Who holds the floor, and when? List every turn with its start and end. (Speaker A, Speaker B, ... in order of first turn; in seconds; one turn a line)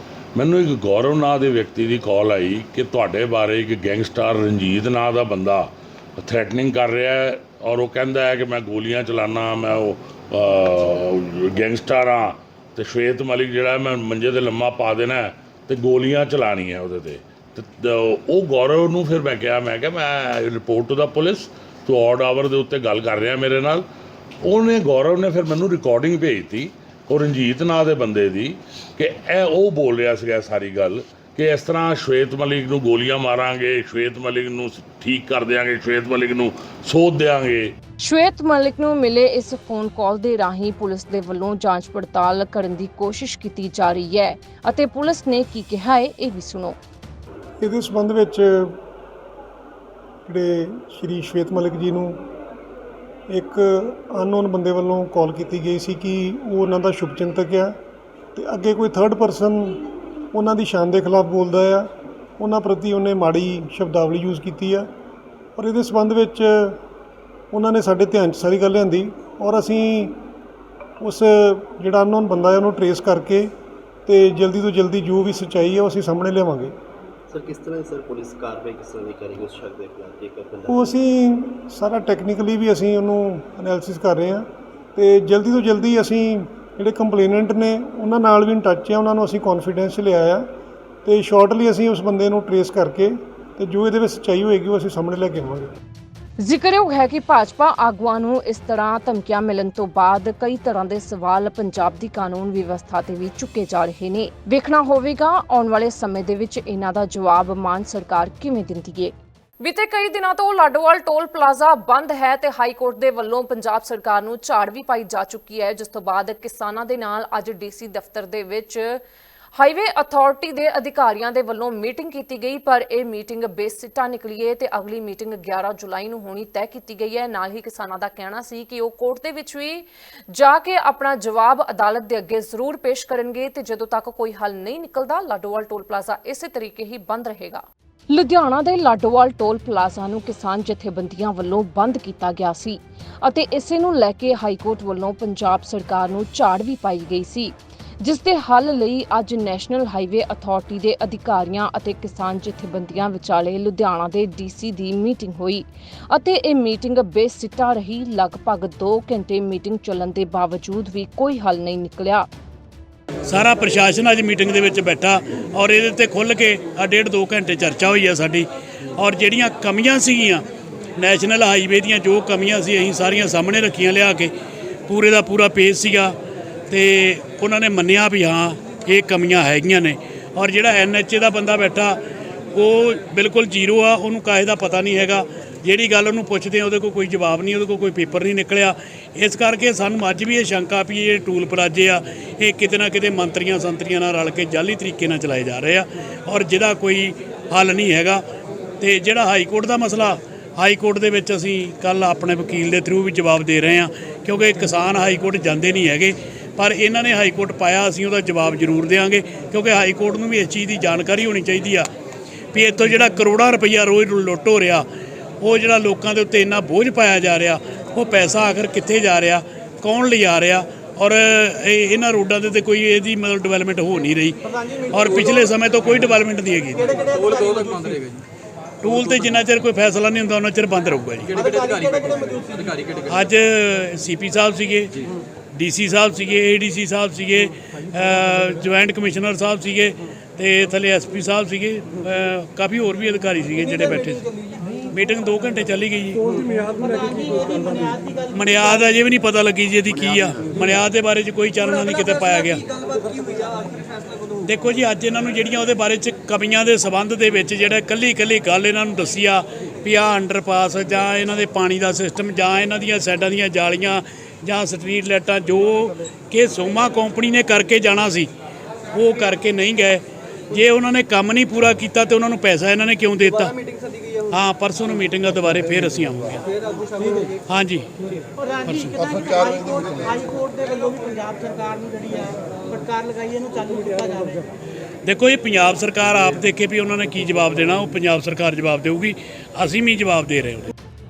Speaker A: 0.3-23.8
Speaker A: 24.4-37.7
Speaker B: 38.0-46.8
Speaker C: 47.6-48.8
Speaker C: 50.2-52.3
Speaker C: 53.3-57.8
Speaker C: 58.3-64.9
Speaker C: 65.5-66.8
Speaker C: 67.5-70.3
Speaker C: 71.0-73.5
Speaker C: 74.0-76.7
Speaker D: 77.3-80.9
Speaker C: 80.7-90.5
Speaker C: 91.0-95.7
Speaker B: 96.4-119.0
Speaker B: 119.6-162.3
Speaker E: 163.2-168.4
Speaker E: 169.0-170.4
Speaker E: 171.0-174.3
Speaker E: 174.9-176.1
Speaker E: 176.7-182.0
Speaker E: 182.5-198.2
Speaker E: 198.8-211.9
Speaker E: 212.5-214.8
Speaker E: 215.4-224.4
Speaker F: 224.5-225.5
Speaker E: 224.9-226.9
Speaker F: 226.7-228.1
Speaker E: 228.8-231.3
Speaker F: 231.3-233.0
Speaker E: 233.1-235.0
Speaker E: 235.5-244.2
Speaker E: 244.9-246.2
Speaker F: 246.3-248.7
Speaker E: 248.3-252.6
Speaker F: 253.2-253.4
Speaker E: 254.4-268.3
Speaker E: 268.9-273.5
Speaker E: 274.3-276.4
Speaker E: 277.5-277.9
Speaker F: 278.4-284.5
Speaker E: 285.0-290.7